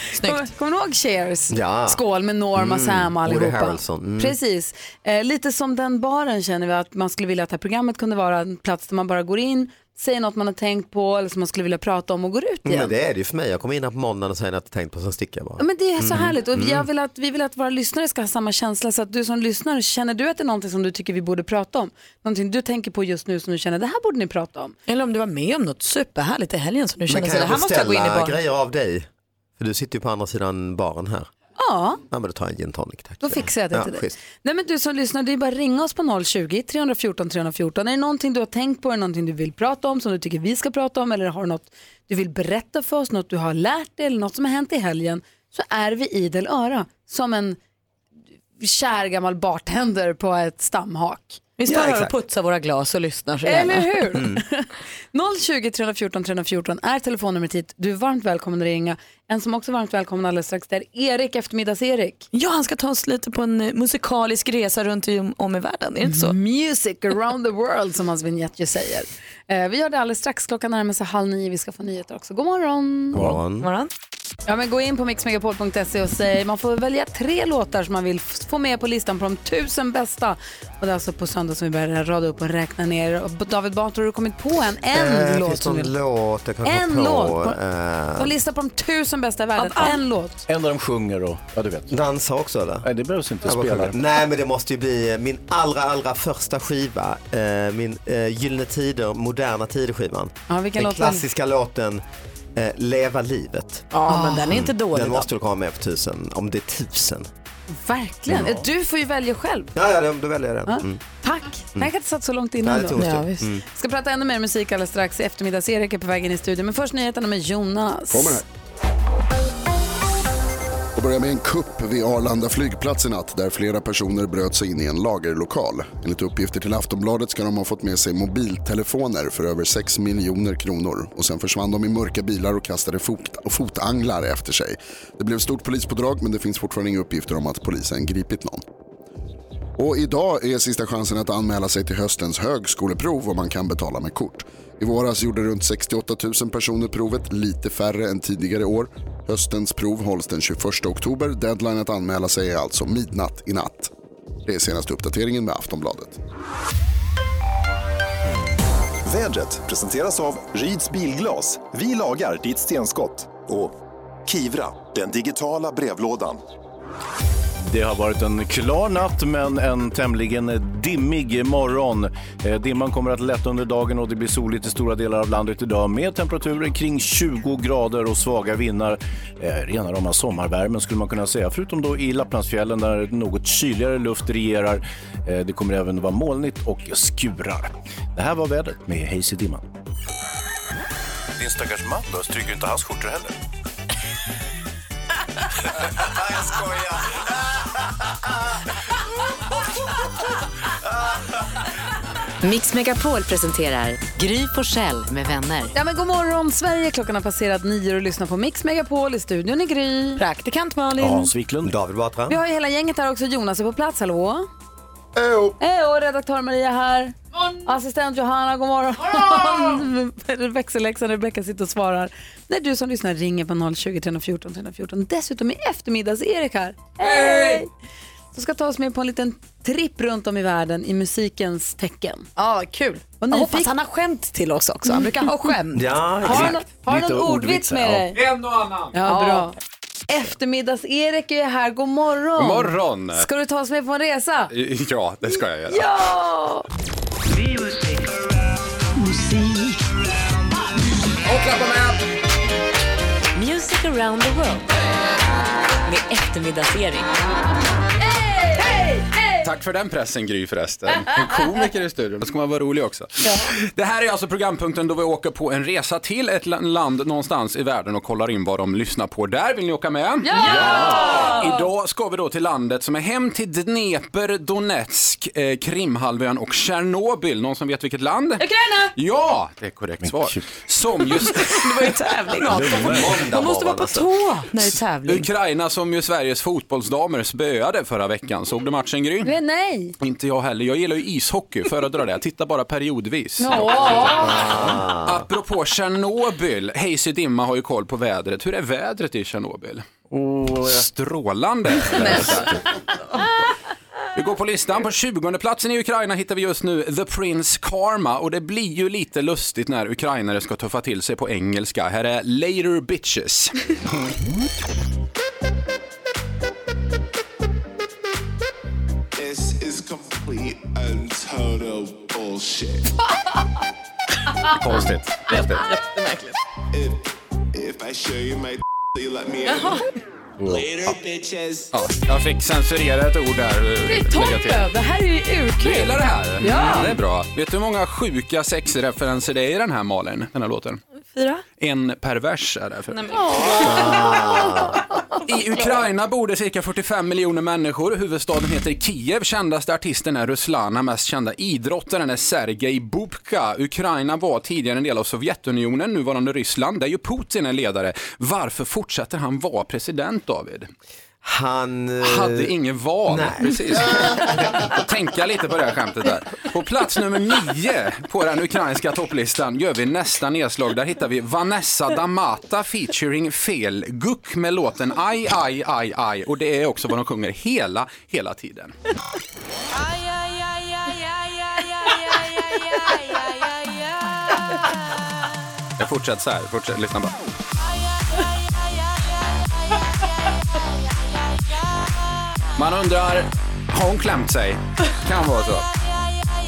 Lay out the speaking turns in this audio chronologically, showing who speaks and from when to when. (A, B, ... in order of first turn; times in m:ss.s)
0:00.2-0:00.5 A
0:00.2-0:12.9 B
0:01.5-0:02.0 C
0:02.6-0:04.4 C
0:12.6-0:16.9 C
0:15.6-0:24.7 B
0:24.9-0:28.4 A
0:27.1-0:31.3 C
0:31.6-0:32.0 B
0:32.1-0:34.1 C
0:33.2-0:47.6 B
0:48.6-0:51.4 B
0:51.6-0:54.2 A
0:51.6-0:52.2 C
0:53.4-1:02.3 B
0:54.1-0:54.4 C
1:02.3-1:06.4 A
1:06.1-1:13.2 B
1:13.1-1:13.7 C
1:13.1-1:13.4 D
1:13.6-1:13.9 A
1:14.5-1:25.9 B
1:24.9-1:28.3 C
1:26.6-1:27.6 B
1:28.2-1:30.4 B
1:29.6-1:30.0 A
1:30.5-1:32.0 D
1:31.9-1:32.8 C
1:32.8-1:34.0 D
1:33.4-1:42.0 C
1:40.5-1:41.2 B
1:42.6-1:47.3 C
1:43.9-1:45.3 A
1:47.7-1:49.7 B
1:49.8-1:51.0 C
1:50.7-1:53.0 B
1:52.6-1:53.6 C
1:53.0-1:53.5 A
1:53.7-1:58.4 B
1:58.1-1:58.4 E
2:01.0-2:18.6 E
2:19.8-2:33.9 E
2:34.5-2:36.2 E
2:39.1-2:46.4 F
2:47.6-3:09.7 D
3:11.4-3:13.4 D
3:22.4-3:25.7 G
3:25.8-3:30.2 B
3:30.2-3:31.3 A
3:31.0-3:31.8 D
3:31.6-3:32.4 C
3:32.3-3:34.5 B
3:35.2-3:35.5 E
3:35.6-3:47.7 B
3:47.0-3:47.6 H
3:48.3-3:52.3 B
3:52.4-3:56.0 A
3:53.2-3:53.7 B
3:55.8-3:56.6 C
3:56.2-3:58.2 B
3:56.3-3:58.1 D
3:58.1-3:58.9 H
3:58.9-3:59.6 B
3:59.1-3:59.5 A
4:00.1-4:04.5 B
4:02.4-4:03.3 H
4:04.5-4:05.9 H
4:05.7-4:06.7 B
4:09.0-4:09.7 A
4:11.2-4:12.0 H
4:13.4-4:14.6 G
4:15.9-4:17.0 A
4:18.0-4:19.4 B
4:19.4-4:38.4 H
4:30.2-4:31.5 B
4:30.5-4:31.3 A
4:39.0-4:41.6 H
4:40.0-4:40.4 D
4:41.4-4:45.3 A
4:42.5-4:43.2 D
4:42.5-4:44.1 C
4:45.1-4:49.3 H
4:49.2-4:49.9 B
4:50.0-4:54.3 H
4:53.4-4:54.4 B
4:54.2-4:55.3 C
4:55.0-4:59.9 H
5:00.1-5:00.9 D
5:00.6-5:02.5 H
5:04.2-5:13.6 H
5:19.2-5:22.9 I
5:24.6-5:25.6 C
5:25.3-5:26.4 A
5:26.7-5:29.8 I
5:30.4-5:30.9 D
5:30.5-5:31.7 I
5:31.7-5:34.6 H
5:33.8-5:36.9 B
5:35.6-5:40.8 H
5:41.2-5:41.4 A
5:41.6-5:43.0 H
5:42.9-5:44.1 A
5:43.6-5:44.8 C
5:45.3-6:00.7 H
6:01.2-6:02.5 C
6:02.0-6:18.7 H
6:03.1-6:04.8 C
6:25.8-6:27.2 H
6:32.6-6:35.7 H